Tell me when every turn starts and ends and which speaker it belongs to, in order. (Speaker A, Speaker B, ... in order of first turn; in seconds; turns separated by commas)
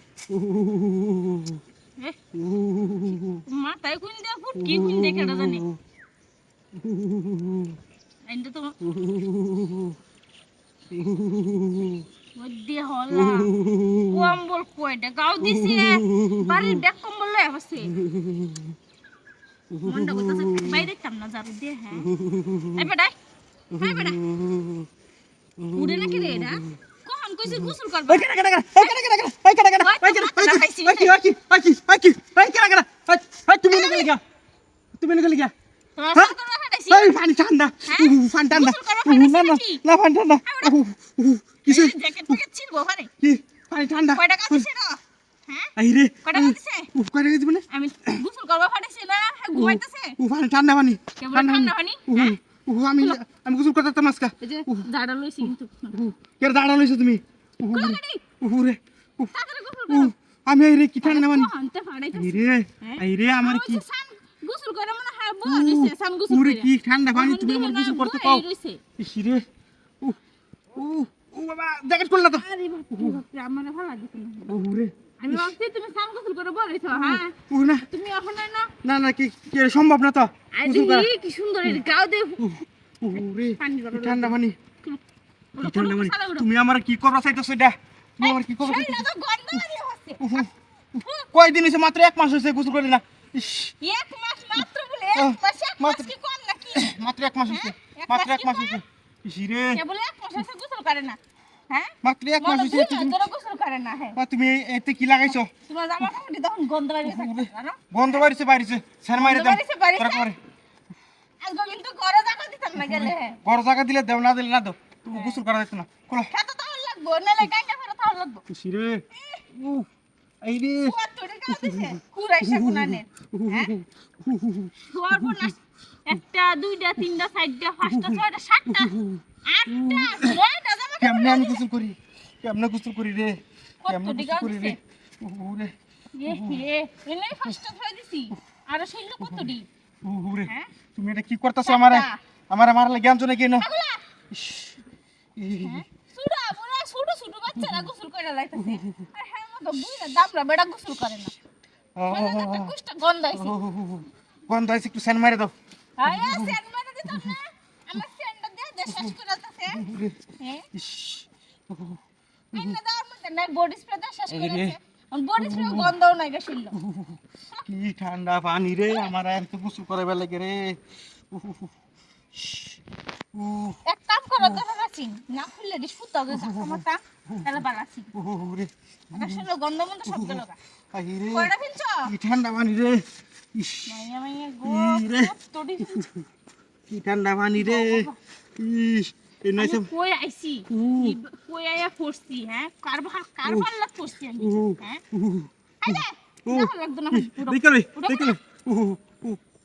Speaker A: 0.3-1.4, Speaker A: 2.4-3.4, Speaker B: 3.3-5.7, Speaker A: 4.6-5.7, Speaker A: 6.8-7.7, Speaker B: 8.3-8.8, Speaker A: 9.0-9.8, Speaker A: 10.9-12.0, Speaker B: 12.3-13.5, Speaker A: 13.3-14.1, Speaker B: 14.1-17.9, Speaker A: 15.4-16.7, Speaker A: 17.9-18.6, Speaker A: 19.7-20.9, Speaker B: 19.8-22.1, Speaker A: 22.1-22.8, Speaker B: 22.7-23.1, Speaker A: 23.7-24.8, Speaker B: 23.7-24.2, Speaker A: 25.6-26.6, Speaker B: 25.7-29.1, Speaker A: 27.6-34.2, Speaker B: 29.8-31.1, Speaker B: 33.7-34.1, Speaker A: 35.0-35.5, Speaker B: 36.0-37.2, Speaker A: 36.9-42.4, Speaker B: 37.9-39.8, Speaker B: 40.5-40.7, Speaker B: 41.6-43.1, Speaker A: 43.2-44.7, Speaker B: 44.1-45.7, Speaker A: 45.8-48.2, Speaker B: 46.2-46.9, Speaker B: 47.7-50.2, Speaker A: 49.5-54.9, Speaker B: 51.2-52.3, Speaker B: 54.4-56.0, Speaker A: 55.4-59.3, Speaker B: 57.7-58.2, Speaker B: 59.3-60.1, Speaker A: 59.9-61.5, Speaker B: 61.0-68.8, Speaker A: 62.1-63.8, Speaker A: 65.4-68.4, Speaker A: 69.0-69.4, Speaker A: 70.7-73.2, Speaker B: 72.2-74.5, Speaker A: 74.5-75.5, Speaker B: 75.2-77.3, Speaker A: 76.9-77.9, Speaker B: 77.9-78.7, Speaker A: 78.8-81.1, Speaker B: 80.5-82.5, Speaker A: 82.4-84.5, Speaker B: 83.2-85.0, Speaker B: 85.5-86.5, Speaker A: 85.6-89.6, Speaker B: 88.2-90.4, Speaker A: 90.2-90.5, Speaker B: 90.9-91.3, Speaker A: 91.3-93.7, Speaker B: 93.8-96.9, Speaker A: 95.1-96.1, Speaker A: 96.7-99.8, Speaker B: 97.5-98.8, Speaker B: 99.7-104.2, Speaker A: 102.0-103.2, Speaker A: 104.1-105.5, Speaker B: 105.6-108.2, Speaker A: 107.0-110.4, Speaker B: 109.2-110.3, Speaker B: 111.4-113.4, Speaker A: 112.8-116.3, Speaker B: 115.1-115.4, Speaker B: 116.3-118.4, Speaker A: 118.5-119.9, Speaker B: 119.1-119.4, Speaker A: 120.4-121.0, Speaker B: 120.8-123.7, Speaker A: 121.5-125.5, Speaker B: 124.9-128.9, Speaker A: 127.8-130.4, Speaker B: 129.4-131.6, Speaker A: 131.0-135.7, Speaker B: 133.8-134.8, Speaker B: 136.1-139.7, Speaker A: 136.3-136.6, Speaker A: 139.2-139.5, Speaker A: 140.0-143.7, Speaker B: 141.6-142.2, Speaker B: 143.6-144.0, Speaker A: 144.3-144.8, Speaker A: 145.4-145.8, Speaker B: 145.6-151.3, Speaker A: 148.6-149.0, Speaker A: 152.0-152.7, Speaker B: 152.1-153.6, Speaker A: 153.3-155.5, Speaker B: 156.0-159.8, Speaker A: 156.0-156.6, Speaker A: 157.1-157.3, Speaker A: 159.7-160.1, Speaker B: 160.4-160.7, Speaker A: 160.7-162.0, Speaker B: 162.5-166.8, Speaker A: 164.3-164.8, Speaker A: 165.4-165.9, Speaker A: 166.8-170.8, Speaker B: 168.9-169.1, Speaker A: 171.3-171.7, Speaker A: 172.4-172.7, Speaker A: 173.3-173.8, Speaker B: 173.8-178.1, Speaker A: 176.3-176.8, Speaker A: 178.1-179.5, Speaker B: 179.1-180.6, Speaker A: 180.1-181.5, Speaker B: 181.3-182.1, Speaker A: 182.0-183.9, Speaker B: 183.9-186.1, Speaker A: 184.6-185.3, Speaker A: 185.9-186.2, Speaker A: 186.9-189.9, Speaker B: 187.5-188.2, Speaker B: 189.6-195.0, Speaker A: 190.7-191.2, Speaker A: 194.4-199.4, Speaker B: 195.8-198.4